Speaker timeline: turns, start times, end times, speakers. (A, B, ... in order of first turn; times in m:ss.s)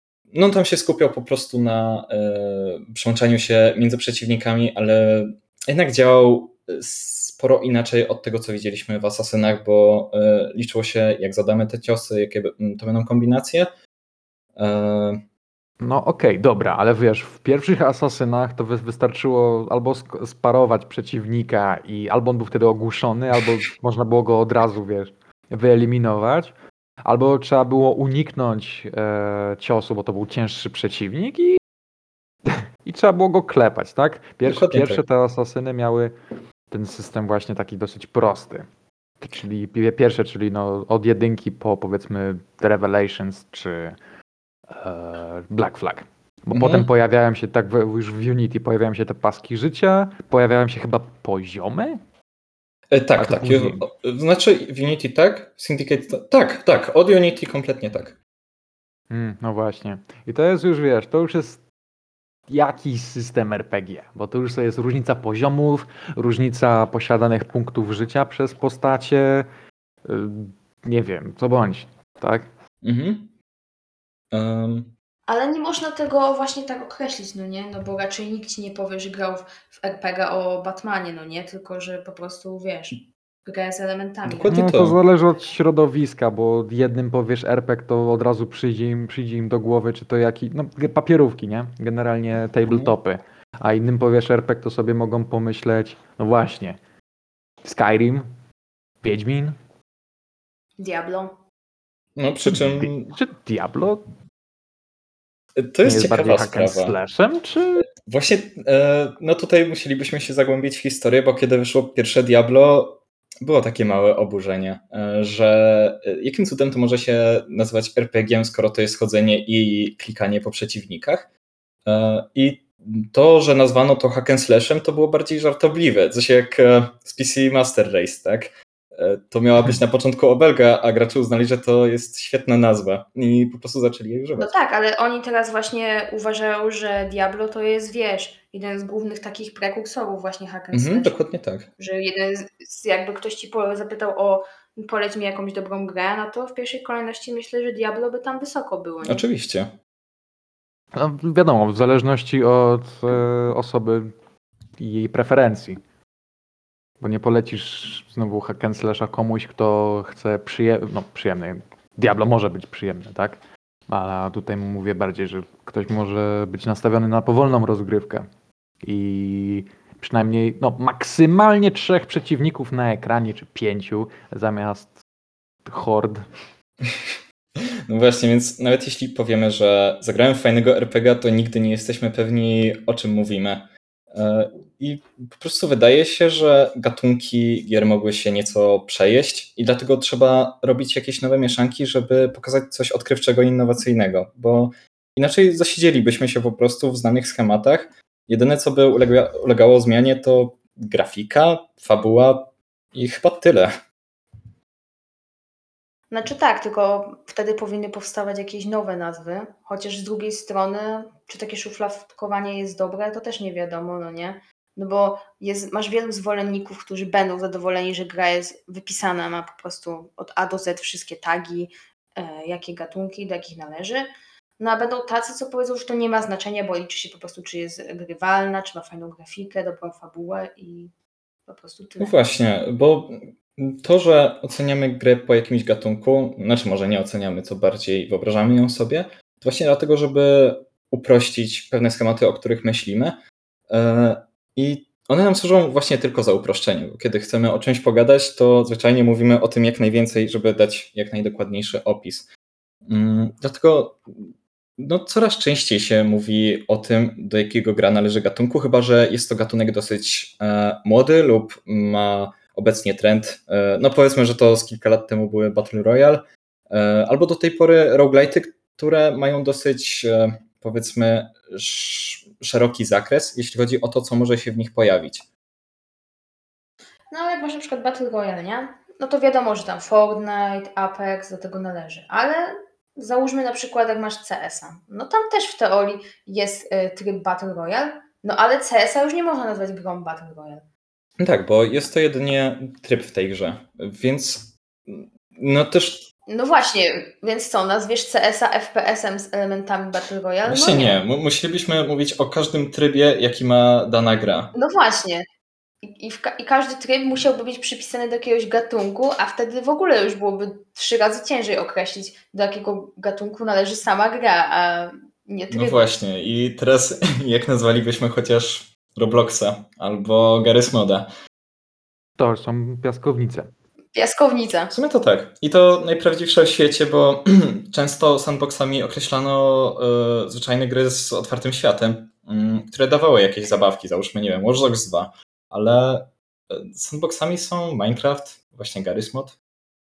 0:00.3-0:13.7 A
0:14.6-0:15.2 A
0:15.8-0:26.5 B
0:27.1-0:31.6 B
0:32.5-0:36.1 B
0:34.4-0:35.0 A
0:36.7-0:38.7 B
0:39.2-0:44.0 B
0:44.7-0:52.0 B
0:46.5-0:46.9 A
0:52.9-0:58.2 A
0:53.2-0:53.8 B
0:59.1-1:01.6 B
1:02.5-1:09.5 B
1:10.0-1:12.4 B
1:12.8-1:13.3 A
1:14.3-1:14.9 A
1:15.3-1:24.7 C
1:24.2-1:25.0 A
1:24.5-1:36.8 B
1:32.7-1:33.0 A
1:37.6-1:38.3 B
1:39.0-1:39.6 B
1:40.8-1:41.4 C
1:42.2-1:43.1 A
1:42.4-1:44.0 B
1:45.6-1:47.0 A
1:45.8-1:47.9 B
1:48.0-2:01.3 A
2:01.8-2:14.6 A
2:14.4-2:21.2 C
2:20.7-2:21.7 A
2:21.8-2:29.2 C
2:29.0-2:29.7 A
2:31.0-2:34.1 B
2:34.8-2:35.8 B
2:37.0-2:43.4 B
2:43.9-2:48.3 B
2:48.8-2:55.0 B
2:55.6-2:56.2 B
2:56.8-2:57.2 A
2:57.9-3:23.7 A
3:26.1-3:44.1 C
3:44.6-3:50.9 C
3:51.5-3:52.2 C
3:52.0-4:12.3 A
4:12.9-4:35.3 A
4:37.1-4:50.6 C
4:51.2-4:56.1 A
4:56.3-5:01.0 C
5:00.5-5:04.5 A
5:04.5-5:05.2 C
5:05.8-5:15.8 C
5:15.5-5:21.1 A
5:22.2-5:23.5 B
5:24.0-5:24.7 C
5:24.7-5:39.4 A